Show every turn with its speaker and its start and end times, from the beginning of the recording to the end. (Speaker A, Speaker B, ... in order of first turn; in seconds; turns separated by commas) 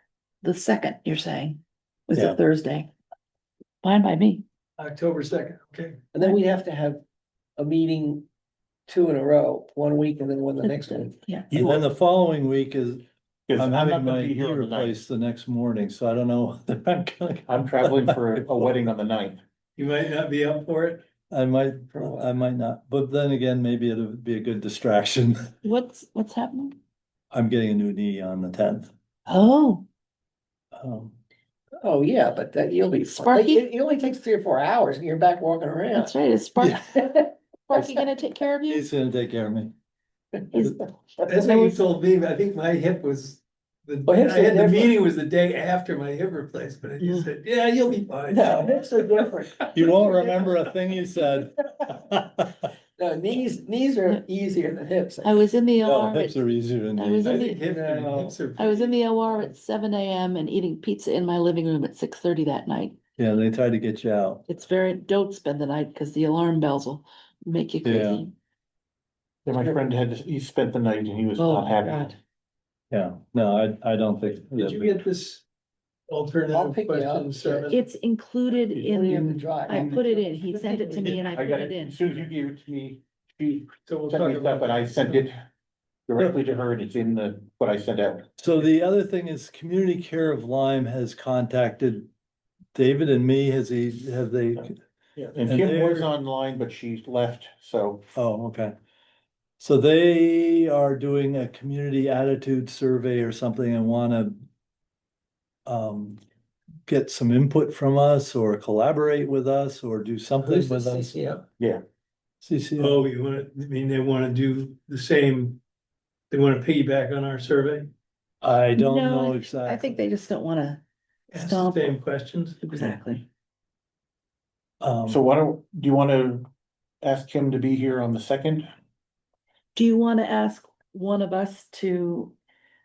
Speaker A: 0.4-2.9, Speaker A: 3.8-4.4, Speaker B: 4.8-6.0, Speaker C: 6.1-7.0, Speaker C: 7.6-8.2, Speaker C: 8.9-11.2, Speaker A: 10.6-11.5, Speaker D: 11.5-18.7, Speaker E: 13.5-15.0, Speaker E: 17.5-19.4, Speaker B: 19.8-21.0, Speaker D: 21.3-25.5, Speaker C: 21.9-22.3, Speaker A: 25.6-26.8, Speaker D: 27.3-28.9, Speaker A: 29.3-29.8, Speaker D: 30.7-31.1, Speaker C: 31.8-36.1, Speaker A: 33.0-33.6, Speaker A: 35.9-38.8, Speaker D: 36.6-36.9, Speaker C: 37.7-38.0, Speaker D: 38.7-39.7, Speaker C: 40.3-40.8, Speaker A: 40.5-41.8, Speaker B: 41.3-49.8, Speaker C: 44.0-45.0, Speaker C: 48.3-50.5, Speaker D: 49.7-52.7, Speaker C: 53.0-55.4, Speaker A: 55.2-57.6, Speaker D: 55.8-57.4, Speaker B: 57.2-59.0, Speaker C: 57.6-58.4, Speaker A: 58.5-63.0, Speaker D: 63.2-64.4, Speaker A: 64.5-68.3, Speaker D: 67.8-68.2, Speaker E: 69.4-72.1, Speaker C: 69.5-69.8, Speaker A: 71.4-72.2, Speaker D: 72.9-75.0, Speaker B: 74.5-75.4, Speaker B: 76.1-77.8, Speaker C: 76.5-77.7, Speaker A: 77.7-82.0, Speaker C: 78.8-80.3, Speaker E: 79.7-80.0, Speaker B: 80.7-81.1, Speaker E: 81.0-85.4, Speaker B: 83.8-85.3, Speaker E: 86.1-88.4, Speaker D: 88.4-92.1, Speaker D: 92.7-94.8, Speaker E: 95.2-98.0, Speaker D: 95.5-96.1, Speaker D: 98.2-98.7, Speaker D: 99.6-104.4, Speaker D: 105.7-106.2, Speaker D: 106.9-111.1, Speaker C: 110.4-111.4, Speaker D: 112.4-113.0, Speaker B: 112.8-115.6, Speaker B: 116.3-117.9, Speaker D: 118.4-120.0, Speaker A: 118.7-120.8, Speaker B: 121.3-122.6, Speaker A: 121.3-122.0, Speaker A: 122.6-123.2, Speaker D: 124.8-125.2, Speaker E: 125.1-126.5, Speaker E: 127.0-128.7, Speaker A: 129.7-132.3